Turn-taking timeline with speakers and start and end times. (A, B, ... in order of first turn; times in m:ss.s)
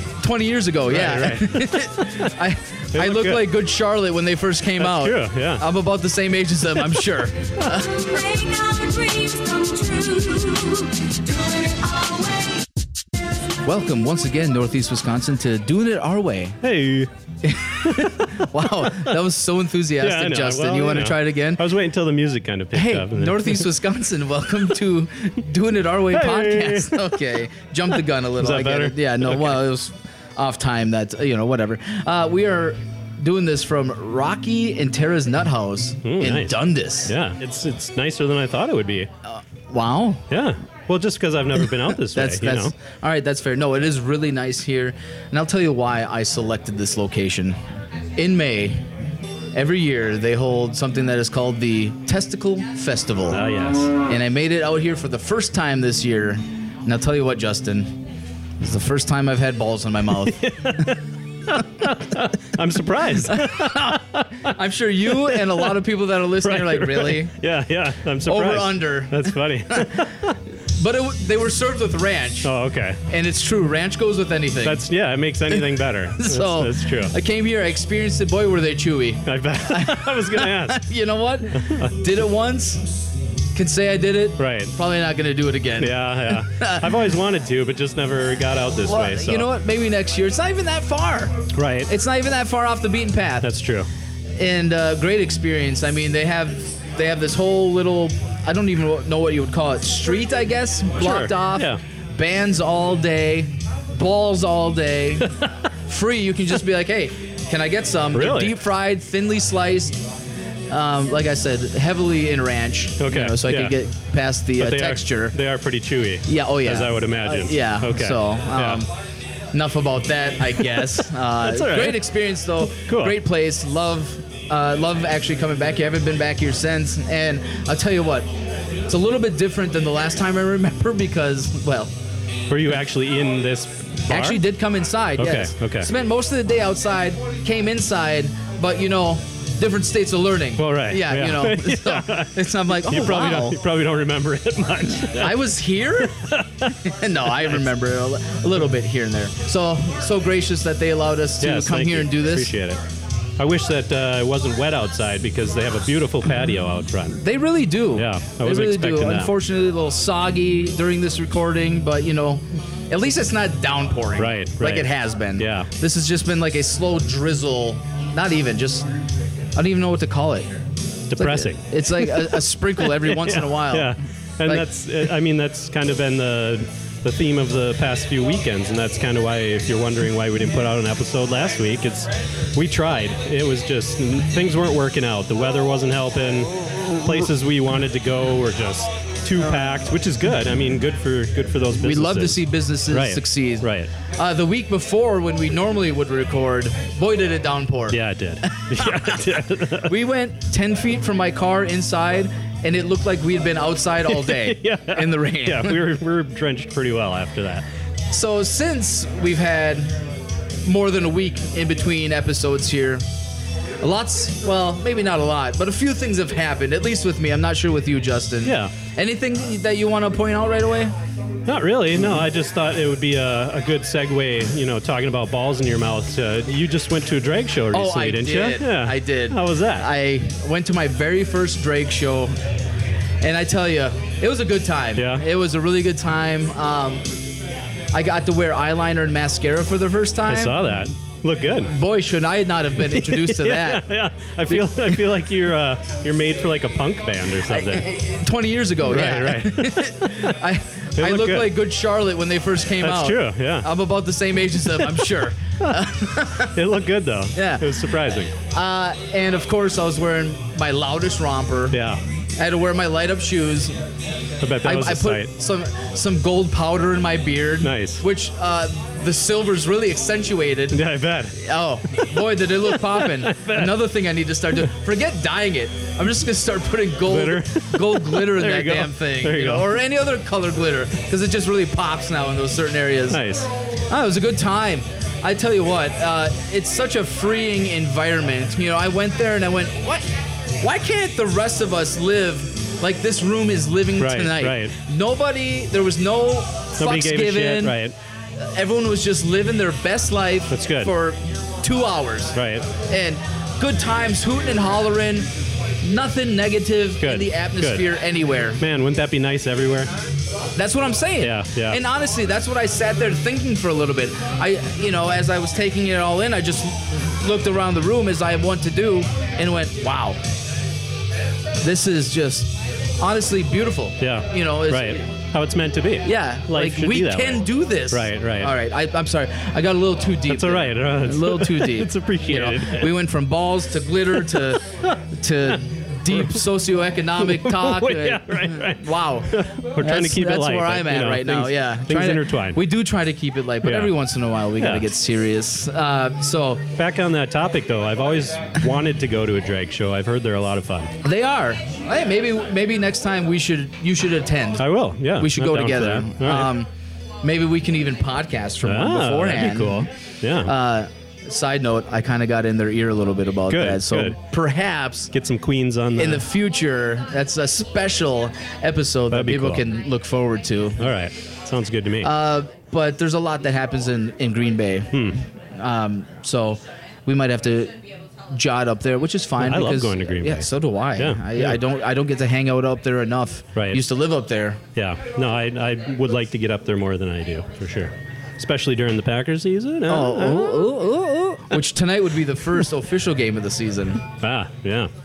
0:00.2-0:08.1 A
0:00.9-0:02.3 B
0:02.9-0:03.5 B
0:04.8-0:05.6 B
0:08.0-0:12.6 C
0:13.6-0:16.6 A
0:16.6-0:17.1 B
0:17.4-0:21.7 A
0:17.8-0:19.2 B
0:20.0-0:23.7 B
0:22.7-0:37.1 A
0:26.1-0:27.2 B
0:27.9-0:29.6 B
0:36.0-0:39.1 B
0:39.2-0:40.3 A
0:40.3-0:42.7 B
0:41.8-0:47.6 A
0:48.2-0:48.8 A
0:49.5-0:53.4 A
0:53.3-0:53.9 B
0:54.1-0:58.0 A
0:58.6-1:00.9 A
1:00.1-1:04.5 B
1:03.3-1:07.3 A
1:05.0-1:05.8 B
1:06.4-1:10.4 B
1:08.2-1:10.1 A
1:10.6-1:12.5 A
1:12.4-1:13.0 B
1:13.1-1:14.8 A
1:14.6-1:17.1 B
1:15.5-1:22.8 A
1:19.2-1:20.8 B
1:21.5-1:22.1 B
1:23.5-1:26.9 A
1:24.4-1:24.7 B
1:25.8-1:29.5 B
1:28.9-1:33.5 A
1:31.5-1:31.9 B
1:33.4-1:33.9 B
1:34.4-1:45.3 A
1:41.0-1:41.8 B
1:45.8-1:50.0 A
1:48.1-1:48.5 B
1:50.7-1:55.4 A
1:53.0-1:53.8 B
1:54.6-1:58.8 B
1:56.3-1:58.9 A
1:59.5-2:08.3 A
2:00.6-2:02.0 B
2:02.8-2:03.2 B
2:08.9-2:11.9 A
2:12.5-2:14.4 B
2:14.1-2:23.6 A
2:15.2-2:15.9 B
2:20.6-2:25.4 B
2:25.1-2:32.5 A
2:26.0-2:26.8 B
2:27.3-2:27.7 B
2:31.4-2:32.8 B
2:33.4-2:37.2 B
2:37.2-2:48.9 A
2:37.9-2:39.3 B
2:44.2-2:45.7 B
2:49.6-2:50.6 A
2:51.1-3:13.9 B
2:51.1-2:54.6 A
3:11.8-3:18.0 A
3:17.9-3:19.9 B
3:18.6-3:19.1 A
3:19.8-3:25.8 A
3:24.1-3:27.6 B
3:28.1-3:29.9 A
3:30.6-3:33.0 A
3:33.8-3:40.9 A
3:38.4-3:38.7 B
3:41.4-3:49.9 B
3:47.7-3:52.3 A
3:53.2-3:57.0 A
3:55.0-3:55.2 B
3:57.9-4:00.6 A
4:00.2-4:01.7 B
4:01.6-4:03.9 A
4:02.8-4:07.9 B
4:04.5-4:05.0 A
4:07.5-4:16.5 A
4:08.8-4:10.4 B
4:11.0-4:11.6 B
4:12.8-4:13.7 B
4:14.8-4:15.0 B
4:16.5-4:18.3 B
4:17.3-4:17.9 A
4:18.4-4:21.8 A
4:21.7-4:22.0 B
4:22.4-4:23.7 A
4:24.4-4:25.3 B
4:24.6-4:30.8 A
4:27.6-4:28.0 B
4:30.7-4:31.4 B
4:31.4-4:43.2 A
4:32.6-4:33.7 B
4:37.0-4:39.7 B
4:43.1-4:43.5 B
4:43.9-4:50.0 A
4:50.6-4:57.8 A
4:54.0-4:54.7 B
4:56.8-4:57.9 B
4:58.5-5:05.3 A
5:00.5-5:00.9 B
5:02.4-5:02.6 B
5:05.8-5:08.6 A
5:07.0-5:07.8 B
5:08.6-5:09.9 B
5:10.5-5:20.2 A
5:11.2-5:11.8 B
5:21.6-5:25.0 A
5:24.0-5:28.5 B
5:26.0-5:34.6 A
5:30.3-5:33.0 B
5:34.1-5:36.5 B
5:35.1-5:46.6 A
5:37.2-5:42.6 B
5:43.6-5:44.0 B
5:44.6-5:44.8 B
5:46.7-5:50.9 B
5:51.0-5:56.7 A
5:54.6-5:56.5 B
5:57.2-5:59.9 A
5:58.6-6:00.5 B
6:00.4-6:05.1 A
6:03.5-6:04.2 B
6:05.1-6:06.2 B
6:06.0-6:10.9 A
6:09.1-6:09.6 B
6:10.8-6:12.1 B
6:12.0-6:17.8 A
6:14.9-6:15.2 B
6:18.3-6:24.6 A
6:19.4-6:21.6 B
6:23.6-6:23.8 B
6:24.8-6:30.7 B
6:29.9-6:34.0 A
6:34.2-6:34.9 B